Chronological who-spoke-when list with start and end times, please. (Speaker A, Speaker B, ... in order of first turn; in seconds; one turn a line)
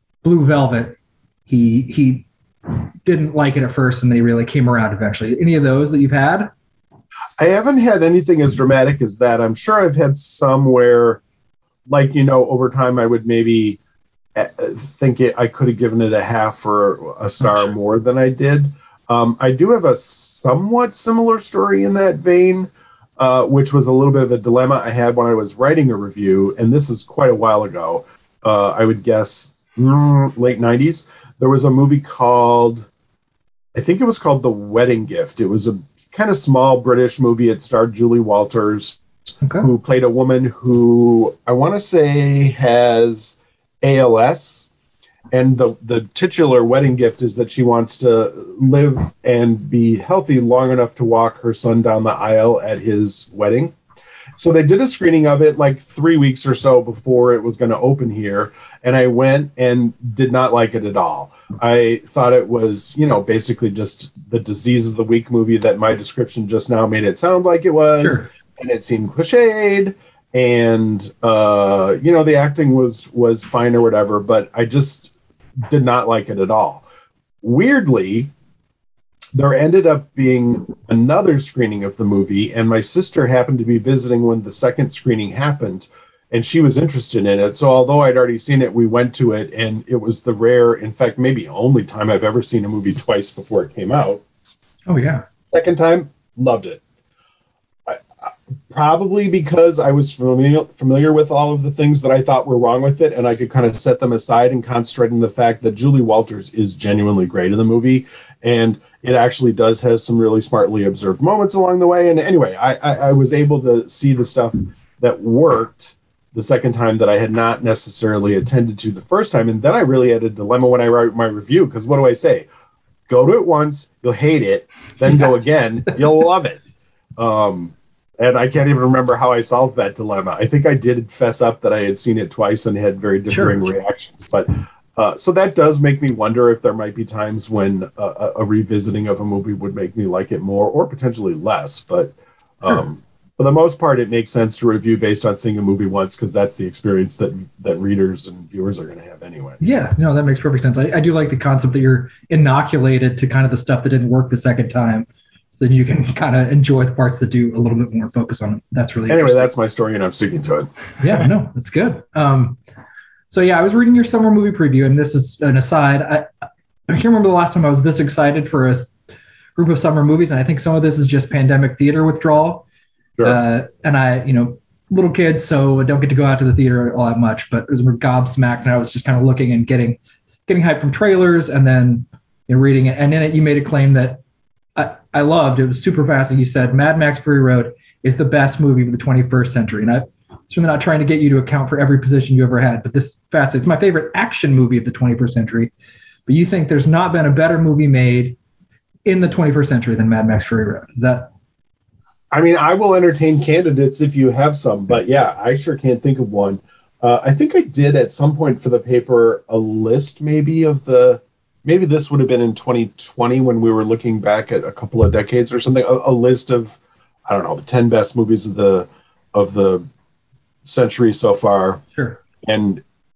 Speaker A: 0.2-6.5
Speaker B: 7.4-11.2
Speaker B: 11.9-13.8
Speaker B: 14.3-32.9
Speaker A: 17.4-17.7
Speaker B: 33.8-39.0
Speaker A: 39.4-39.7
Speaker B: 39.6-44.7
Speaker B: 45.3-53.8
Speaker B: 54.4-75.1
Speaker A: 68.0-68.3
Speaker B: 75.6-76.8
Speaker B: 77.4-78.3
Speaker B: 79.3-94.2
Speaker A: 94.9-95.2
Speaker B: 95.5-96.8
Speaker B: 98.7-122.5
Speaker B: 123.1-126.6
Speaker B: 127.2-149.6
Speaker A: 133.3-133.6
Speaker A: 149.6-159.5
Speaker B: 159.1-160.7
Speaker A: 161.0-162.6
Speaker A: 163.3-166.3
Speaker A: 166.9-168.9
Speaker A: 169.6-172.7
Speaker A: 173.2-184.2
Speaker A: 184.8-195.7
Speaker A: 196.3-198.4
Speaker A: 199.1-201.3
Speaker B: 202.3-219.9
Speaker B: 220.7-221.8
Speaker B: 222.4-222.8